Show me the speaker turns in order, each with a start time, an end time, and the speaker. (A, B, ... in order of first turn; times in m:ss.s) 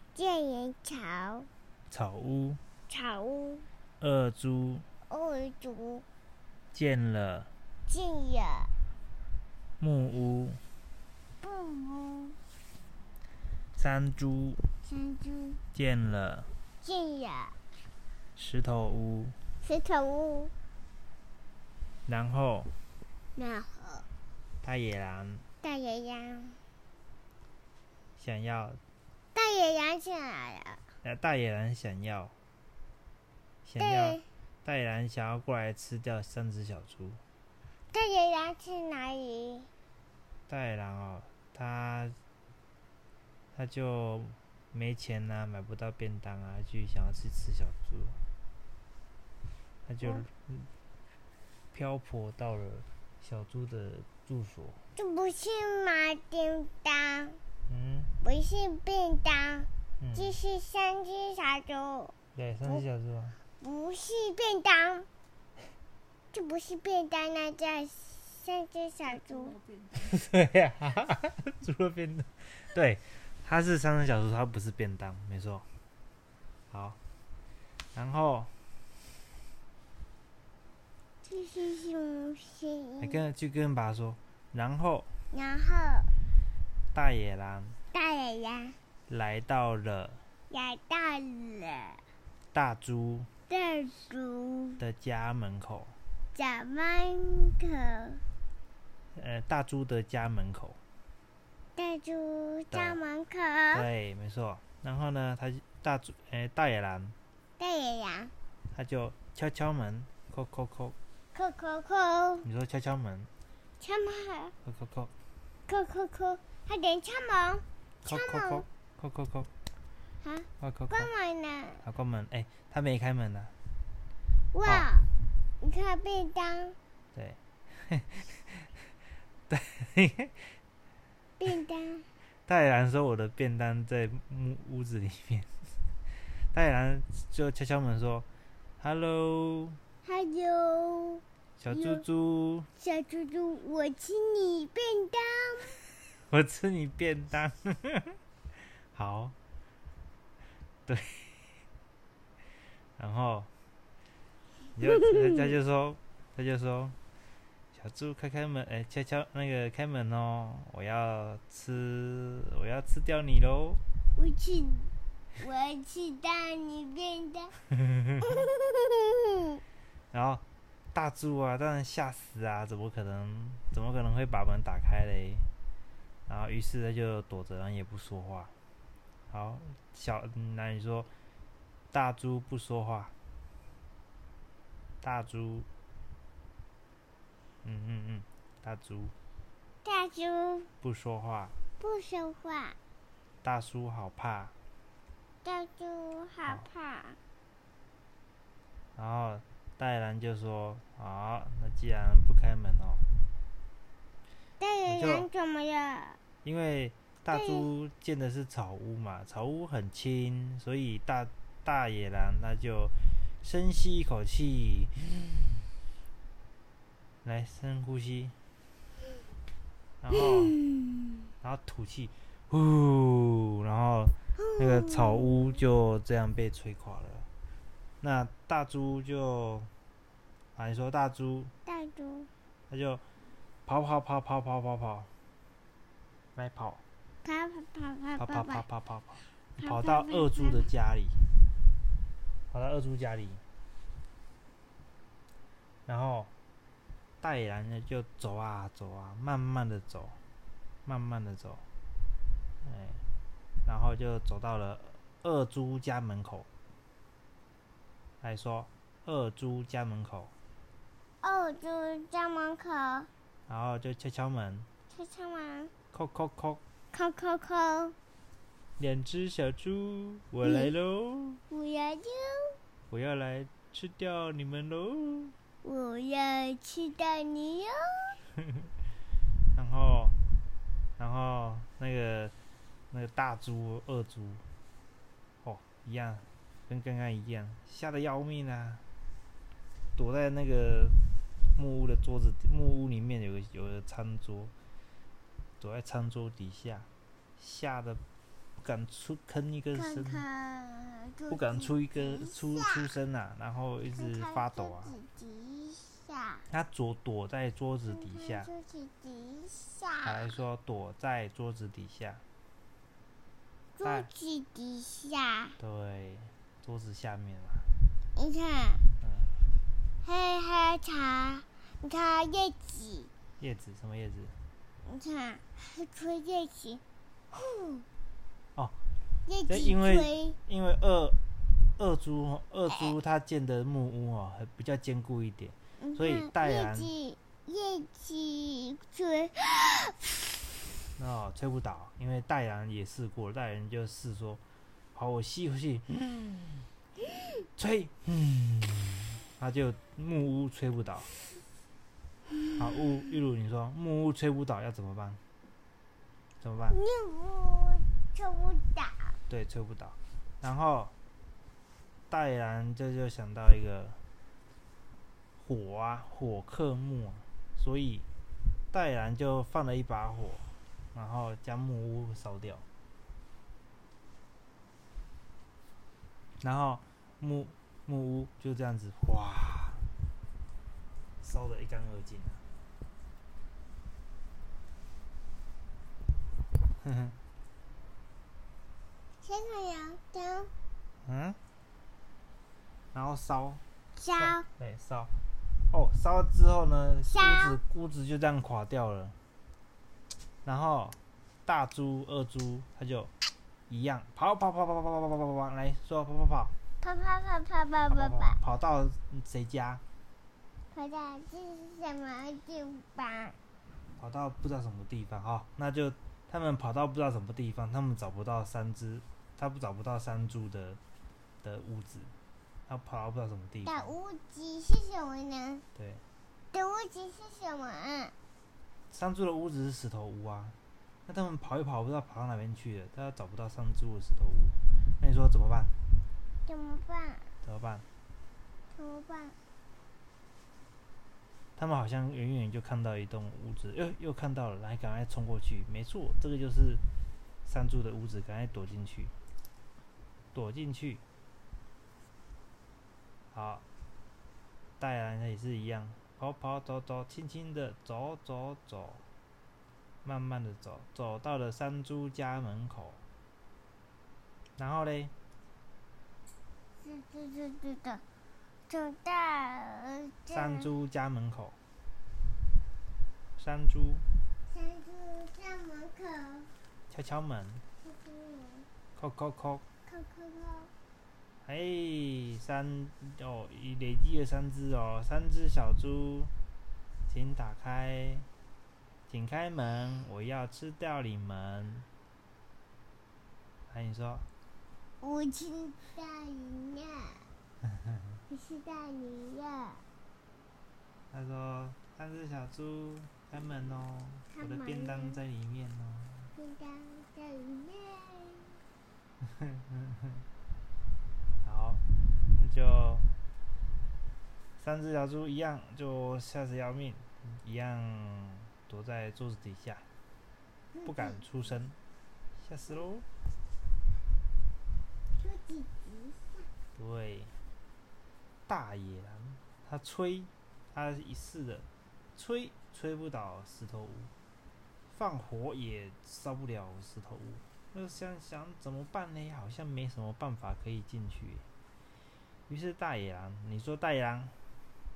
0:00.1-0:01.5 A
0:01.9-0:02.6 B
0:02.9-0:03.7 A
0:04.0-0:04.8 B
0:05.1-0:06.0 A
0:06.7-0:07.5 B
0:07.9-0:08.7 A
0:09.8-0:10.6 B
0:11.4-0:12.4 A
0:13.8-0:14.6 B
0:14.8-0:15.6 A
0:15.7-0:16.5 B
0:16.8-0:17.6 A
0:18.4-0:19.4 B
0:19.6-0:20.5 A
0:22.1-0:22.7 B
0:23.3-0:24.1 A
0:24.6-0:25.4 B
0:25.6-0:26.6 A
0:28.2-0:28.8 B
0:29.3-0:30.8 A
0:31.0-0:32.3 B
0:33.6-0:37.2 B
0:33.8-0:34.2 A
0:37.9-0:39.7 A
0:40.5-0:42.2 B
0:43.5-0:48.2 B
0:49.8-0:50.7 B
0:51.7-0:54.8 B
0:55.0-0:57.4 A
0:57.7-0:58.1 B
0:58.2-1:02.1 A
1:00.0-1:00.3 B
1:02.3-1:03.4 B
1:03.6-1:05.1 A
1:06.3-1:09.6 A
1:09.9-1:15.6 B
1:16.7-1:17.0 B
1:17.9-1:18.5 B
1:21.2-1:23.2 A
1:23.0-1:25.1 B
1:25.3-1:26.1 A
1:26.9-1:27.8 B
1:27.9-1:28.8 A
1:29.1-1:30.2 B
1:30.5-1:32.0 A
1:32.5-1:33.3 B
1:33.5-1:34.8 A
1:34.8-1:36.0 B
1:36.3-1:38.2 A
1:39.1-1:40.8 B
1:41.8-1:43.9 A
1:42.7-1:43.0 B
1:43.7-1:47.2 B
1:47.6-1:48.3 A
1:48.7-1:51.0 B
1:51.3-1:52.5 A
1:52.4-1:53.3 B
1:53.8-1:54.5 A
1:54.6-1:55.1 B
1:55.7-1:58.6 A
1:58.0-1:59.5 B
2:00.2-2:01.8 A
2:00.6-2:01.1 B
2:01.8-2:03.5 B
2:04.5-2:05.1 A
2:04.6-2:04.9 B
2:05.6-2:06.8 A
2:07.1-2:08.7 B
2:09.5-2:10.6 B
2:11.4-2:12.1 A
2:12.5-2:15.5 B
2:16.3-2:18.3 B
2:18.8-2:19.8 B
2:20.0-2:22.0 A
2:21.6-2:22.7 B
2:22.8-2:25.8 A
2:26.3-2:28.2 B
2:28.9-2:29.3 B
2:30.9-2:31.4 B
2:33.0-2:33.5 B
2:34.8-2:37.0 B
2:34.9-2:35.2 A
2:37.7-2:43.8 B
2:44.1-2:47.6 A
2:48.2-2:49.6 A
2:50.1-2:55.5 B
2:56.3-2:58.5 B
2:59.3-3:01.1 B
3:01.9-3:03.1 B
3:05.0-3:05.7 B
3:07.6-3:09.1 B
3:09.8-3:10.7 A
3:10.8-3:11.5 B
3:11.8-3:12.8 A
3:13.4-3:14.5 B
3:15.4-3:17.2 A
3:18.9-3:23.0 B
3:24.6-3:26.2 A
3:24.9-3:25.3 B
3:26.4-3:35.6 B
3:27.3-3:27.7 A
3:37.2-3:38.4 B
3:40.0-3:40.6 B
3:40.2-3:41.0 A
3:41.4-3:47.3 B
3:44.4-3:45.6 A
3:48.0-3:49.7 B
3:50.6-3:51.5 B
3:51.6-3:52.3 A
3:52.7-3:53.0 B
3:53.6-3:55.1 B
3:56.4-3:56.8 B
3:57.2-3:58.6 A
3:58.2-4:01.2 B
3:59.6-4:00.7 A
4:02.5-4:03.4 B
4:05.9-4:06.3 B
4:07.2-4:10.2 B
4:10.8-4:11.6 B
4:12.6-4:13.0 B
4:13.6-4:16.5 B
4:18.2-4:20.3 B
4:21.2-4:23.1 A
4:23.5-4:24.7 B
4:24.9-4:25.7 A
4:25.9-4:26.6 B
4:26.9-4:28.0 A
4:28.8-4:31.4 B
4:30.4-4:30.7 A
4:31.5-4:32.6 A
4:32.9-4:35.3 B
4:35.6-4:38.2 A
4:39.5-4:40.2 B
4:41.0-4:42.3 B
4:42.9-4:44.4 B
4:45.4-4:48.8 B
4:50.0-4:51.0 B
4:51.5-4:54.5 B
4:55.6-4:58.0 B
4:58.6-5:00.2 B
4:59.7-5:02.9 A
5:01.3-5:04.9 B
5:04.0-5:06.4 A
5:06.5-5:08.5 B
5:07.8-5:10.3 A
5:10.0-5:12.2 B
5:13.8-5:15.6 A
5:13.8-5:14.1 B
5:15.6-5:17.7 B
5:18.1-5:18.8 A
5:19.0-5:19.4 B
5:20.0-5:23.1 A
5:23.4-5:24.4 B
5:24.8-5:26.8 A
5:27.3-5:27.8 A
5:29.2-5:30.4 A
5:29.5-5:31.2 B
5:31.8-5:36.9 B
5:32.7-5:32.9 A
5:35.8-5:40.1 A
5:41.0-5:44.4 B
5:44.9-5:46.7 B
5:47.6-5:51.1 B
5:52.6-5:55.2 B
5:56.4-5:56.8 B
5:56.7-5:59.2 A
5:59.3-6:00.9 B
6:02.1-6:04.0 B
6:05.4-6:08.0 B
6:08.7-6:12.6 B
6:16.4-6:19.8 B
6:21.2-6:22.4 B
6:26.8-6:27.2 B
6:29.2-6:30.5 A
6:31.0-6:31.4 B
6:32.9-6:33.6 B
6:34.0-6:34.4 A
6:34.2-6:35.1 B
6:35.7-6:39.2 B
6:37.1-6:37.6 A
6:40.4-6:43.1 B
6:43.7-6:46.5 B
6:46.8-6:48.4 A
6:47.9-6:49.8 B
6:50.7-6:53.4 A
6:54.0-7:00.8 B
7:01.4-7:02.1 B
7:02.7-7:03.9 B
7:03.6-7:05.6 A
7:05.7-7:06.0 B
7:06.5-7:08.1 A
7:08.9-7:10.6 B
7:11.1-7:15.7 B
7:16.4-7:17.3 A
7:17.4-7:17.8 B
7:18.7-7:19.4 A
7:21.6-7:26.8 B
7:27.4-7:29.1 B
7:30.3-7:31.0 B
7:33.3-7:33.6 B
7:34.8-7:39.0 B
7:40.0-7:43.0 B
7:44.6-7:45.1 B
7:46.8-7:48.0 A
7:48.7-7:50.7 A
7:50.3-7:51.6 B
7:53.4-7:54.0 B
7:54.5-7:56.5 A
7:56.9-7:57.6 B
7:57.8-7:58.7 A
7:59.0-7:59.6 B
7:59.8-8:00.7 A
8:01.4-8:06.3 B
8:07.1-8:08.3 B
8:09.1-8:11.9 B
8:13.7-8:14.2 B
8:15.0-8:17.3 A
8:18.3-8:19.8 A
8:21.1-8:26.3 B
8:24.3-8:25.2 A
8:26.3-8:28.5 A
8:29.2-8:29.9 B
8:31.4-8:31.8 B
8:32.4-8:33.1 B
8:34.6-8:39.8 B
8:40.7-8:41.2 A
8:40.8-8:41.8 B
8:42.4-8:43.1 B
8:45.2-8:46.5 A
8:46.8-8:47.3 B
8:48.5-8:54.1 B
8:54.9-9:01.4 B
9:02.5-9:04.4 B